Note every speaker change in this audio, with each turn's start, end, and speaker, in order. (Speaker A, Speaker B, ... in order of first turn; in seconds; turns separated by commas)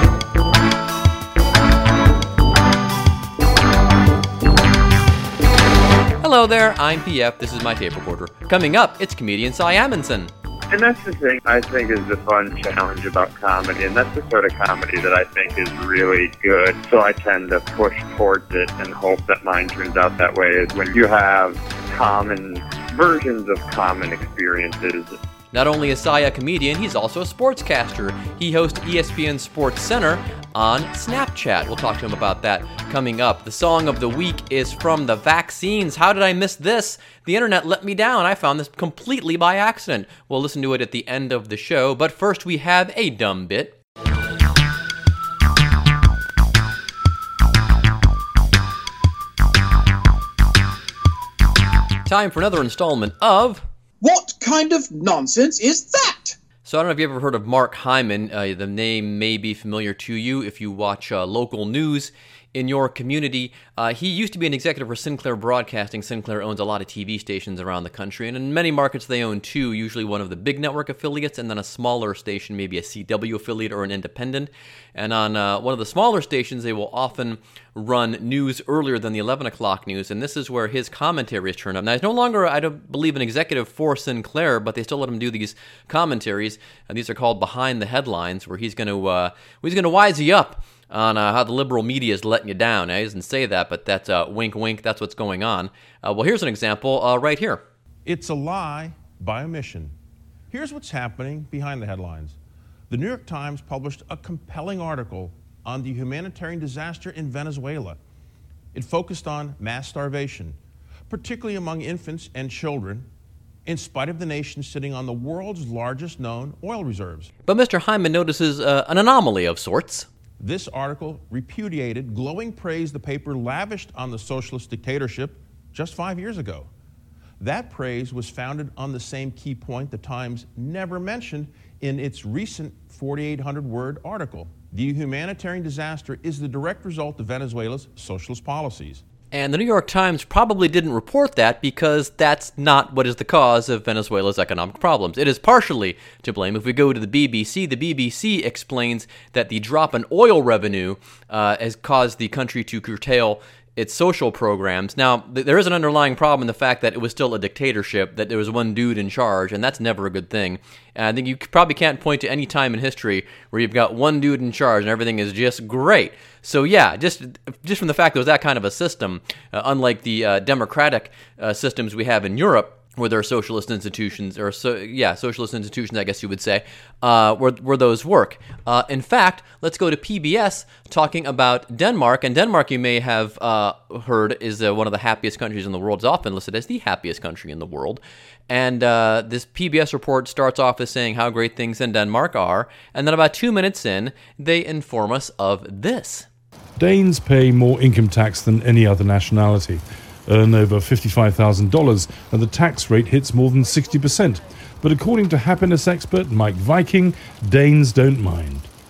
Speaker A: 6.2-10.3, Speaker B: 10.7-25.2, Speaker A: 25.5-43.7, Speaker A: 52.1-53.6, Speaker C: 54.0-56.4, Speaker A: 56.6-97.6, Speaker D: 98.0-99.9, Speaker D: 100.5-102.4, Speaker D: 102.9-108.0, Speaker D: 108.7-110.6, Speaker D: 111.1-113.1, Speaker D: 113.7-117.3, Speaker A: 117.5-120.1, Speaker D: 120.4-126.7, Speaker D: 127.4-139.0, Speaker A: 139.3-196.3, Speaker E: 196.8-208.7